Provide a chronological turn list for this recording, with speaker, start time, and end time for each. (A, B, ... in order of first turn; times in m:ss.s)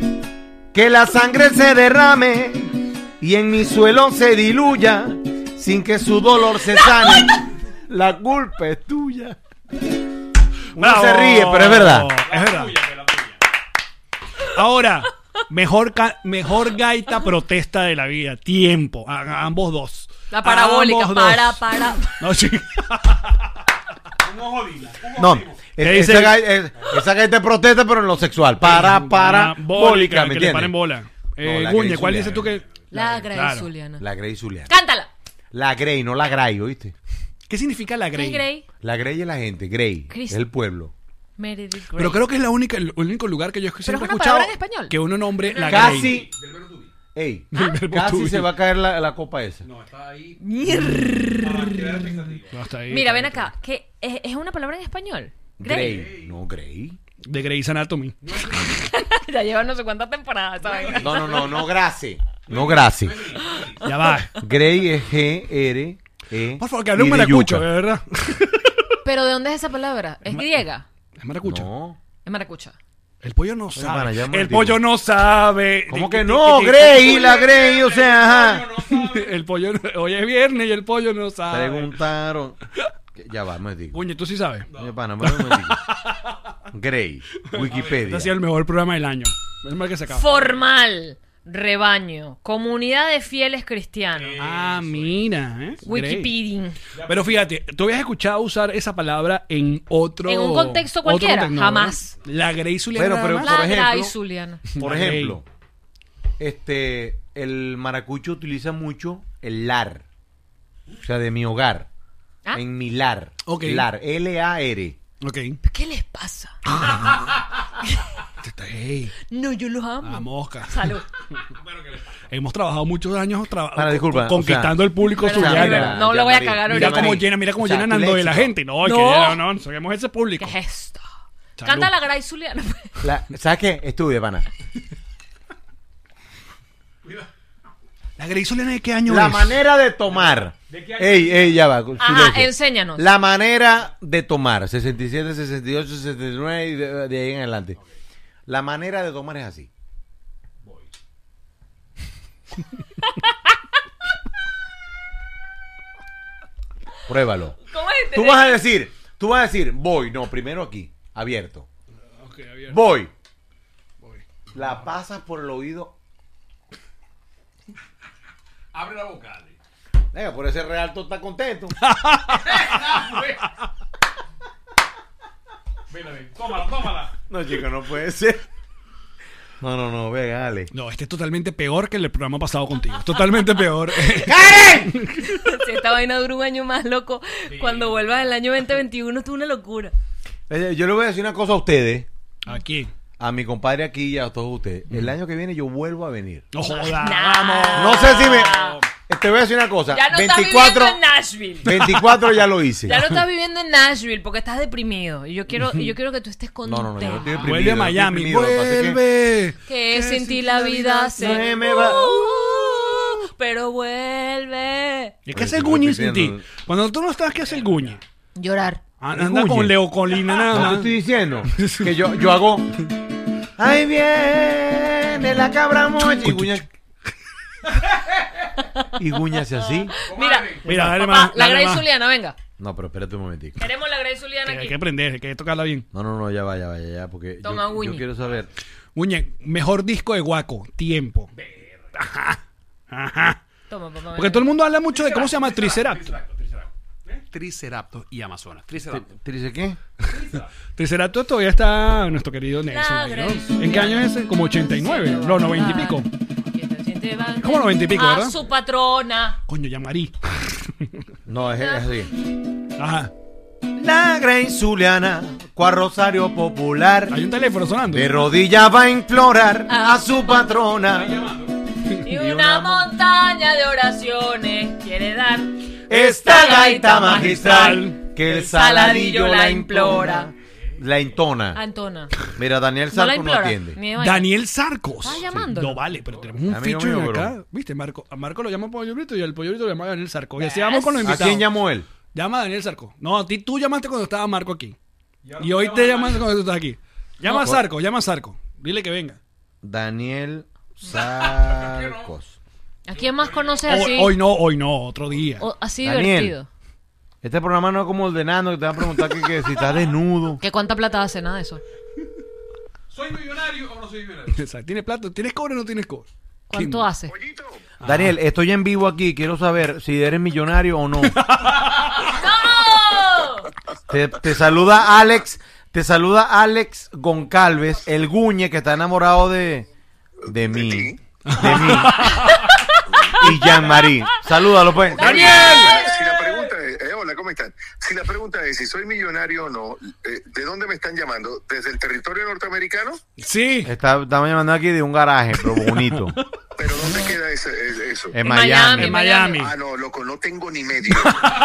0:00.7-0:09.4 A
0:10.7-0:12.1 A
0:10.8-0:12.8 B
0:12.2-0:13.4 C
0:14.5-0:21.6 B
0:20.3-0:22.2 D
0:22.2-0:23.5 B
0:24.2-0:25.8 C
0:25.1-0:30.7 A
0:25.8-0:26.5 B
0:26.8-0:27.0 C
0:28.6-0:33.7 B
0:31.4-0:32.5 A
0:32.2-0:32.8 C
0:32.9-0:34.0 D
0:34.0-0:34.7 A
0:34.7-0:35.1 D
0:35.5-0:36.9 A
0:37.5-0:38.5 B
0:38.2-0:38.6 D
0:38.8-0:40.9 A
0:40.1-0:40.4 D
0:41.4-0:42.2 D
0:42.0-0:46.2 B
0:43.8-0:44.9 D
0:45.4-0:46.9 C
0:45.6-0:46.3 A
0:47.1-0:49.6 A
0:47.5-0:48.5 B
0:49.6-0:50.4 C
0:50.4-0:52.2 D
0:51.4-0:52.6 C
0:52.5-0:53.5 B
0:52.9-0:56.0 D
0:55.6-0:57.0 A
0:55.8-0:56.4 C
0:57.2-0:58.2 B
0:58.2-0:58.7 C
0:58.6-1:01.7 D
1:00.6-1:01.5 C
1:01.0-1:03.3 A
1:02.5-1:03.8 C
1:03.8-1:04.3 B
1:03.9-1:04.3 D
1:04.4-1:07.6 A
1:06.6-1:08.9 B
1:09.0-1:10.9 D
1:11.2-1:11.7 B
1:11.4-1:12.0 A
1:12.2-1:12.8 D
1:13.2-1:17.3 B
1:13.8-1:14.8 A
1:15.9-1:18.7 A
1:16.9-1:19.4 C
1:18.9-1:22.0 B
1:21.5-1:22.6 A
1:23.2-1:24.0 A
1:23.9-1:24.7 B
1:24.7-1:25.0 C
1:24.8-1:25.8 A
1:25.2-1:26.4 B
1:26.7-1:28.3 A
1:27.5-1:30.3 B
1:27.6-1:28.0 C
1:30.1-1:34.4 D
1:34.1-1:35.3 C
1:34.4-1:36.3 B
1:35.8-1:36.8 D
1:36.9-1:37.5 C
1:37.0-1:43.5 B
1:40.2-1:42.2 D
1:42.9-1:44.1 A
1:43.4-1:44.6 D
1:44.7-1:45.4 B
1:44.8-1:45.4 A
1:46.4-1:50.0 A
1:51.0-1:51.9 A
1:52.5-1:55.0 A
1:53.5-1:53.9 B
1:55.2-1:55.6 B
1:55.6-1:57.1 D
1:58.4-1:59.2 B
1:59.3-2:01.0 D
2:00.0-2:01.0 B
2:01.5-2:02.3 C
2:02.3-2:06.0 B
2:03.8-2:08.5 A
2:05.0-2:07.2 D
2:06.7-2:10.6 B
2:08.8-2:09.4 D
2:10.4-2:11.0 D
2:11.6-2:11.9 B
2:11.6-2:13.0 D
2:13.0-2:14.5 A
2:18.2-2:19.6 B
2:19.1-2:27.8 A
2:20.1-2:21.7 C
2:22.0-2:23.1 D
2:28.5-2:29.7 A
2:37.1-2:37.6 A
2:37.6-2:38.6 D
2:38.1-2:41.7 A
2:42.2-2:42.8 B
2:42.7-2:43.1 A
2:44.5-2:45.9 A
2:48.7-2:49.6 C
2:50.1-2:51.8 A
2:51.8-2:52.6 B
2:52.4-2:53.5 C
2:55.9-2:57.2 C
2:57.3-2:58.4 A
2:59.6-3:00.7 A
3:00.7-3:05.4 B
3:04.1-3:04.9 A
3:05.3-3:09.9 D
3:07.5-3:08.1 C
3:10.5-3:12.1 A
3:12.4-3:12.9 B
3:13.2-3:16.5 A
3:16.5-3:18.8 B
3:16.6-3:18.8 D
3:17.8-3:18.5 A
3:19.1-3:21.0 A
3:19.9-3:21.8 D
3:21.6-3:23.0 A
3:21.6-3:22.0 B
3:22.8-3:27.4 D
3:26.6-3:29.0 A
3:27.3-3:31.4 B
3:29.7-3:35.2 D
3:31.2-3:32.0 A
3:35.2-3:38.0 B
3:35.3-3:36.5 A
3:38.4-3:38.8 D
3:39.0-3:40.9 B
3:39.1-3:39.8 A
3:40.5-3:42.9 A
3:41.5-3:42.4 B
3:43.6-3:46.6 A
3:46.2-3:46.7 B
3:49.0-3:50.0 A
3:49.5-3:52.4 D
3:50.0-3:50.8 C
3:50.6-3:51.8 B
3:52.6-3:53.6 A
3:53.6-3:54.8 D
3:54.4-3:55.9 B
3:55.9-3:58.5 A
3:57.4-3:58.1 D
3:58.9-4:01.3 B
4:01.3-4:02.0 C
4:01.9-4:02.4 B
4:02.9-4:03.4 B
4:03.7-4:04.5 D
4:04.2-4:06.1 B
4:04.9-4:09.1 C
4:08.9-4:09.8 A
4:10.1-4:10.5 C
4:10.8-4:16.1 B
4:12.7-4:19.4 D
4:17.4-4:18.4 B
4:19.5-4:21.0 B
4:21.3-4:22.1 A
4:21.6-4:22.0 D
4:22.8-4:23.1 B
4:23.8-4:27.2 A
4:27.1-4:28.3 B
4:27.9-4:31.3 A
4:29.7-4:30.5 D
4:30.8-4:31.7 C
4:32.0-4:40.3 D
4:32.1-4:32.9 A
4:35.9-4:41.6 A
4:37.0-4:38.0 B
4:40.8-4:41.2 C
4:41.5-4:42.2 D
4:42.3-4:43.8 A
4:42.9-4:44.3 D
4:44.0-4:51.5 B
4:45.0-4:45.8 D
4:45.9-4:46.4 C
4:46.5-4:47.3 A
4:50.4-4:51.4 D
4:51.0-4:51.9 A
4:52.1-4:54.8 B
4:55.2-4:56.3 C
4:55.4-4:59.2 B
4:57.2-4:57.6 A
4:59.6-5:02.4 A
5:00.9-5:02.1 C
5:02.9-5:04.2 D
5:02.9-5:03.9 C
5:03.7-5:05.5 B
5:05.4-5:06.5 D
5:05.8-5:06.3 A
5:07.2-5:10.4 A
5:10.4-5:11.6 D
5:12.9-5:14.4 C
5:14.3-5:16.9 B
5:16.5-5:17.1 D
5:17.1-5:17.6 E
5:17.8-5:18.2 B
5:17.8-5:21.2 A
5:21.0-5:22.0 B
5:22.0-5:23.5 D
5:23.9-5:29.7 A
5:30.3-5:32.2 A
5:30.3-5:31.0 E
5:31.2-5:32.5 B
5:33.1-5:35.6 A
5:33.2-5:33.9 D
5:34.8-5:36.0 D
5:35.0-5:35.9 B
5:35.0-5:43.0 E
5:43.2-5:43.7 B
5:43.6-5:46.2 A
5:45.4-5:46.2 B
5:46.6-5:48.2 E
5:48.1-5:48.9 A
5:48.2-5:49.5 D
5:48.7-5:49.5 B
5:49.4-5:51.3 E